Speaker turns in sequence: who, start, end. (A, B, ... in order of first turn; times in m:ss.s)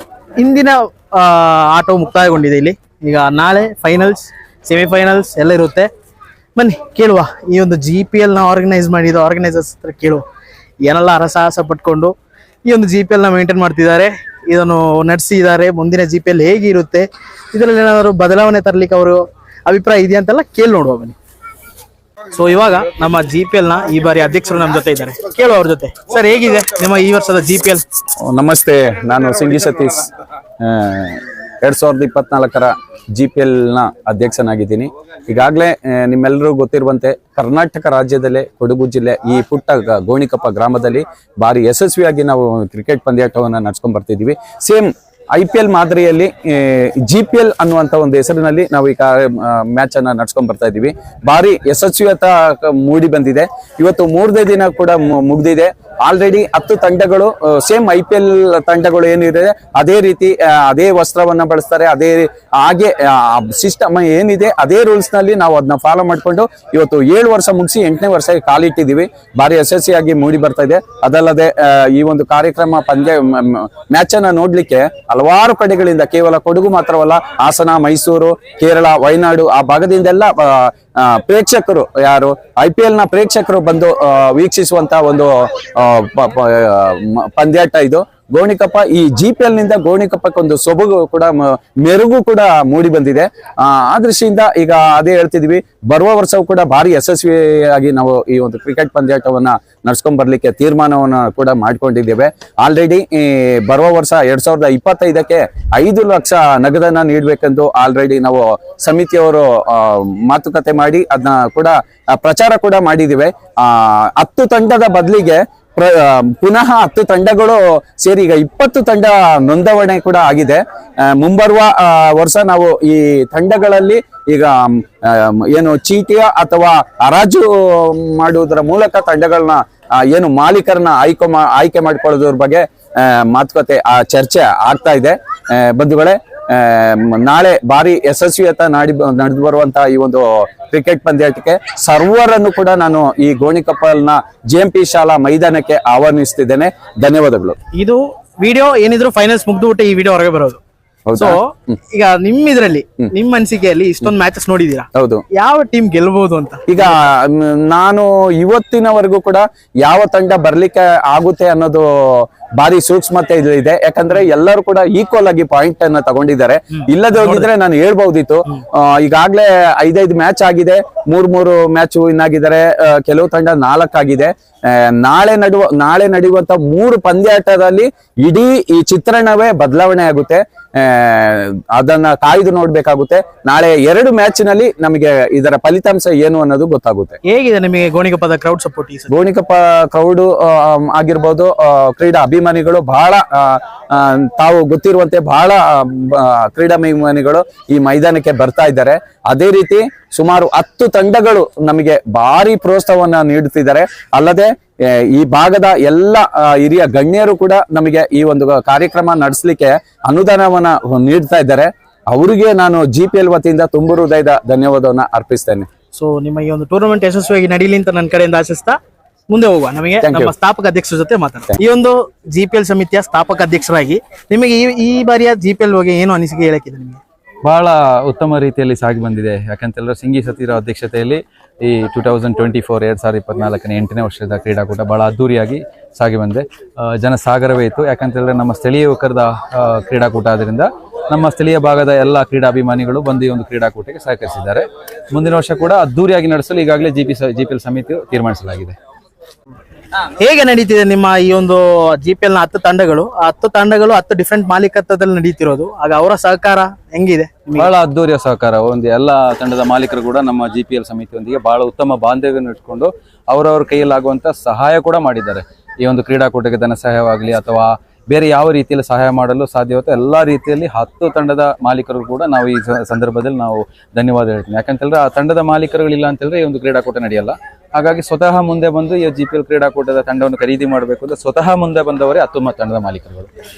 0:00.4-0:05.9 A
0:06.6-0:10.2 A
0:10.8-0:12.1 A
0:12.6-0:21.2 A
0:22.3-0:27.8 A
0:28.2-0:30.1 B
0:30.6-2:04.5 B
2:05.1-2:27.6 B
2:27.7-2:30.6 A
2:31.1-2:31.7 B
2:31.9-2:34.8 A
2:35.0-2:35.2 B
2:35.4-2:36.9 A
2:36.7-2:41.8 B
2:42.6-3:07.2 B
3:07.3-3:09.1 A
3:09.1-3:35.7 B
3:35.9-3:38.8 A
3:39.3-3:47.0 A
3:40.0-3:40.3 B
3:47.4-4:08.8 C
4:10.2-4:17.7 A
4:17.6-4:43.3 C